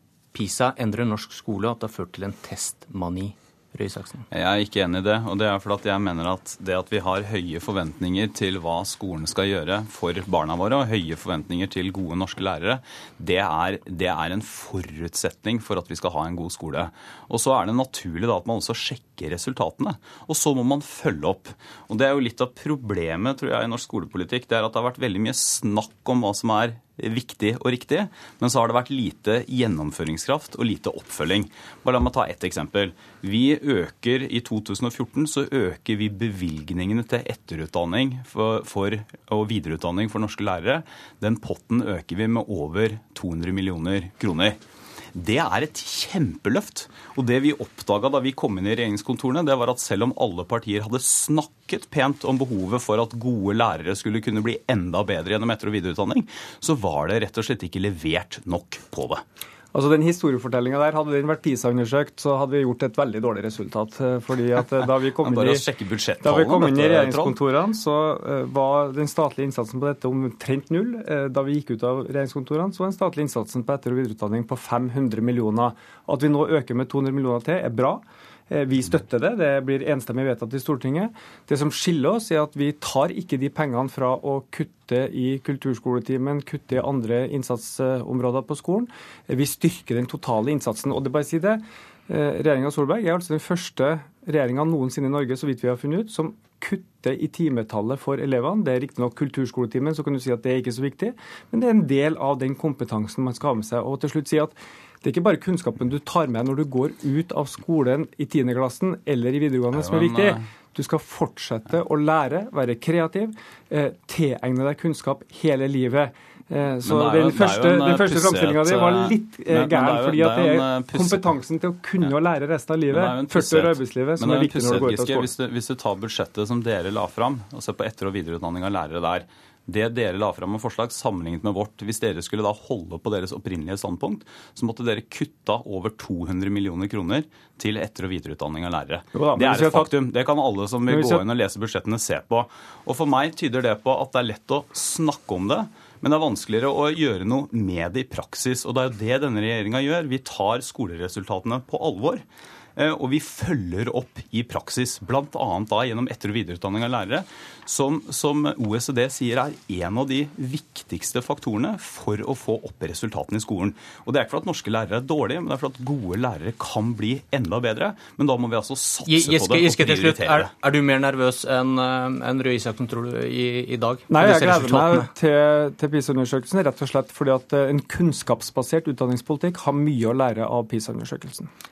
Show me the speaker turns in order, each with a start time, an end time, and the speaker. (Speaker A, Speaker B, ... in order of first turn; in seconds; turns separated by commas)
Speaker A: 0.3-4.2, Speaker B: 4.3-44.6, Speaker B: 45.1-59.2, Speaker C: 59.7-65.7, Speaker B: 65.2-67.4, Speaker C: 66.2-125.3, Speaker B: 109.7-110.4, Speaker B: 116.8-121.2, Speaker B: 122.9-152.2, Speaker C: 139.1-139.9, Speaker C: 140.9-141.2, Speaker B: 152.8-170.5, Speaker A: 169.1-175.1, Speaker C: 174.1-181.5